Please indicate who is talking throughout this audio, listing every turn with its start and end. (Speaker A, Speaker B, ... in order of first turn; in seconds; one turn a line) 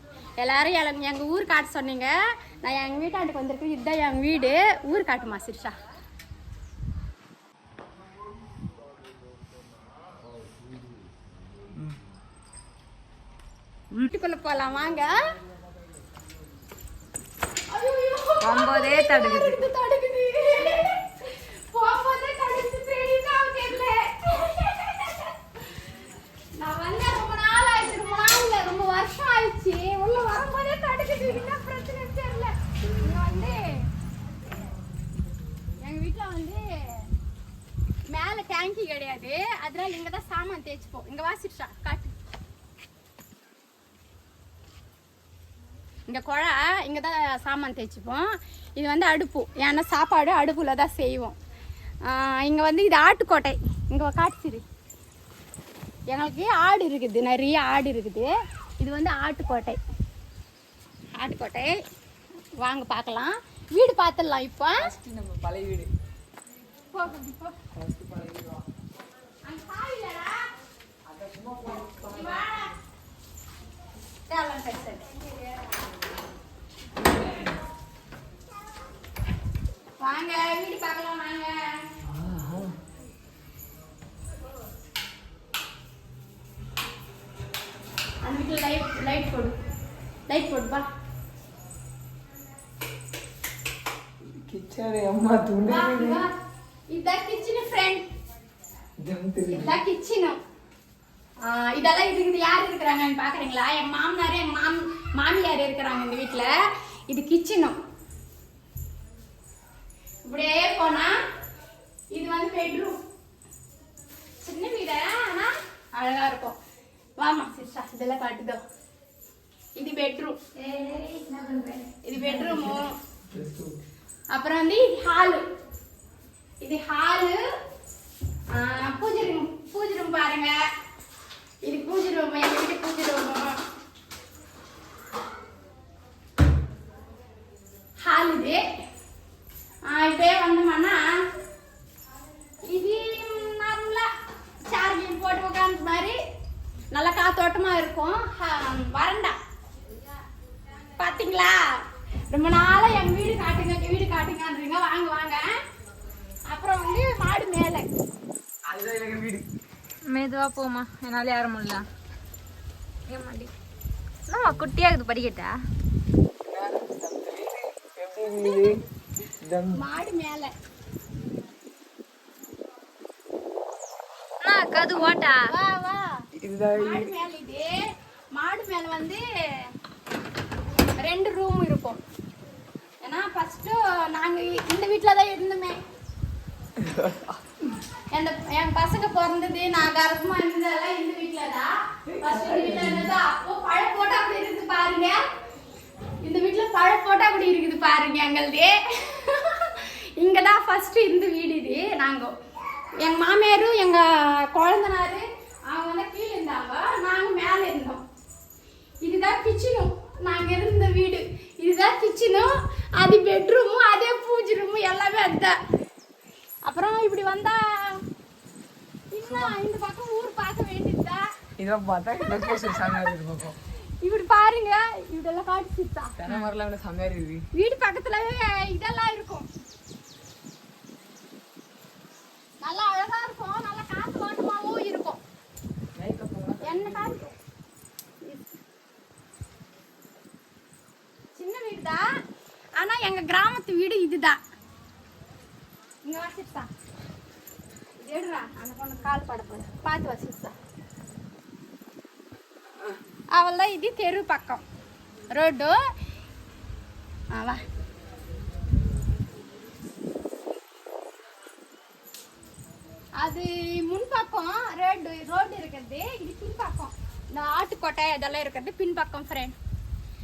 Speaker A: 0.4-5.8
Speaker A: 13.9-15.2
Speaker A: 17.7-25.4
Speaker B: 18.4-19.6
Speaker A: 26.6-33.7
Speaker A: 35.8-37.1
Speaker A: 38.1-42.1
Speaker A: 46.1-51.4
Speaker A: 52.0-54.6
Speaker A: 56.1-59.8
Speaker A: 61.1-61.8
Speaker A: 62.6-64.9
Speaker C: 64.8-65.9
Speaker A: 66.9-67.6
Speaker C: 67.7-68.7
Speaker A: 69.5-70.5
Speaker C: 71.1-72.5
Speaker A: 72.1-72.8
Speaker A: 74.3-75.2
Speaker A: 80.0-81.8
Speaker C: 82.0-82.8
Speaker A: 88.2-89.6
Speaker A: 90.3-90.9
Speaker C: 94.3-96.2
Speaker A: 95.7-96.3
Speaker A: 96.9-98.1
Speaker C: 99.0-99.8
Speaker A: 99.5-100.4
Speaker A: 101.4-106.5
Speaker A: 107.1-107.8
Speaker A: 110.2-111.2
Speaker A: 112.1-113.0
Speaker A: 114.4-116.6
Speaker A: 117.2-118.6
Speaker A: 119.8-120.4
Speaker B: 120.6-122.8
Speaker A: 122.0-122.9
Speaker C: 123.3-123.7
Speaker A: 124.3-125.4
Speaker A: 126.6-127.4
Speaker A: 128.5-130.5
Speaker A: 131.6-133.6
Speaker A: 138.0-138.6
Speaker A: 139.9-141.2
Speaker A: 142.7-144.1
Speaker A: 144.7-146.2
Speaker A: 146.9-149.4
Speaker A: 151.0-151.7
Speaker A: 152.3-155.6
Speaker A: 156.5-157.9
Speaker C: 158.7-159.5
Speaker B: 160.1-161.9
Speaker B: 163.1-163.5
Speaker B: 164.3-165.6
Speaker C: 166.4-168.8
Speaker A: 168.4-168.7
Speaker C: 169.4-169.8
Speaker A: 169.7-170.5
Speaker B: 174.4-175.5
Speaker A: 175.4-176.1
Speaker C: 176.3-177.1
Speaker A: 176.8-177.8
Speaker A: 178.3-179.7
Speaker A: 181.0-182.0
Speaker A: 183.0-185.8
Speaker C: 186.8-187.4
Speaker A: 188.1-195.2
Speaker C: 192.1-193.1
Speaker A: 196.2-202.3
Speaker A: 203.0-208.0
Speaker A: 209.0-215.6
Speaker A: 216.7-218.0
Speaker A: 219.1-221.3
Speaker C: 219.2-219.6
Speaker C: 221.6-223.6
Speaker A: 224.0-226.2
Speaker C: 226.2-227.5
Speaker A: 227.5-229.5
Speaker A: 232.6-235.2
Speaker C: 236.0-237.2
Speaker A: 236.6-237.3
Speaker A: 241.3-242.1
Speaker A: 242.8-244.4
Speaker A: 246.1-246.7
Speaker A: 248.0-250.6
Speaker A: 253.3-254.6
Speaker A: 255.3-255.8
Speaker A: 257.3-257.6
Speaker A: 263.2-269.6